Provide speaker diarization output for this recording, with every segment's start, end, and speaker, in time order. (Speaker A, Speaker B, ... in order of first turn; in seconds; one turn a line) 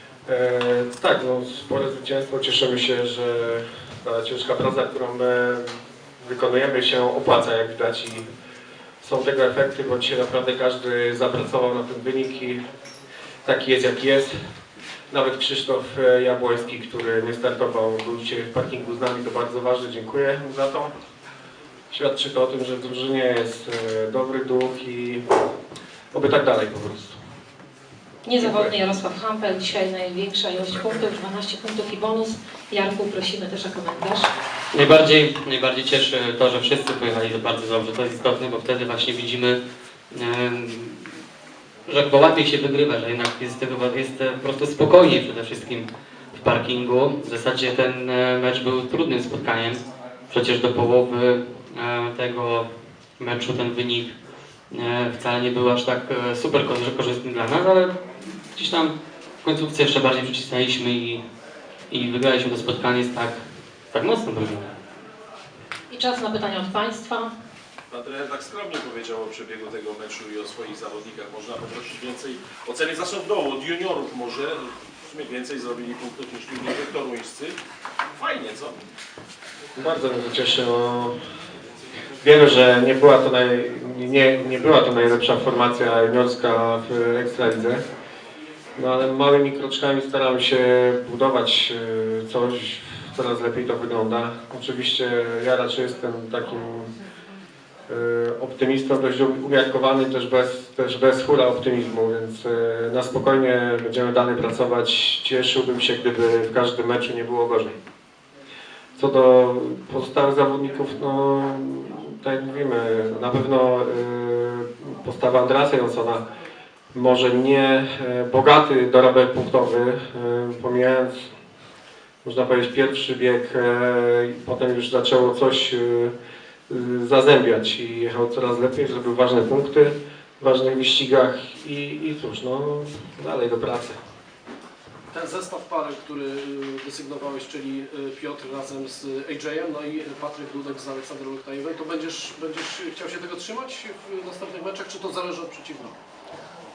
Speaker A: 0.3-8.3
Speaker A: 9.0-12.6
Speaker A: 13.4-14.3
Speaker A: 15.1-20.9
Speaker A: 21.9-25.2
Speaker A: 26.1-27.2
Speaker B: 28.2-34.3
Speaker A: 28.4-28.7
Speaker C: 34.7-39.6
Speaker C: 40.1-41.1
Speaker C: 41.9-52.7
Speaker C: 53.2-54.1
Speaker C: 54.7-58.0
Speaker C: 58.5-61.2
Speaker C: 61.9-64.7
Speaker B: 65.9-67.3
Speaker D: 67.9-77.6
Speaker D: 78.2-78.8
Speaker A: 79.8-81.2
Speaker A: 82.2-87.8
Speaker A: 88.8-96.9
Speaker A: 97.9-107.8
Speaker A: 109.0-116.2
Speaker A: 116.9-121.3
Speaker A: 122.2-126.1
Speaker A: 126.7-134.0
Speaker E: 135.1-146.0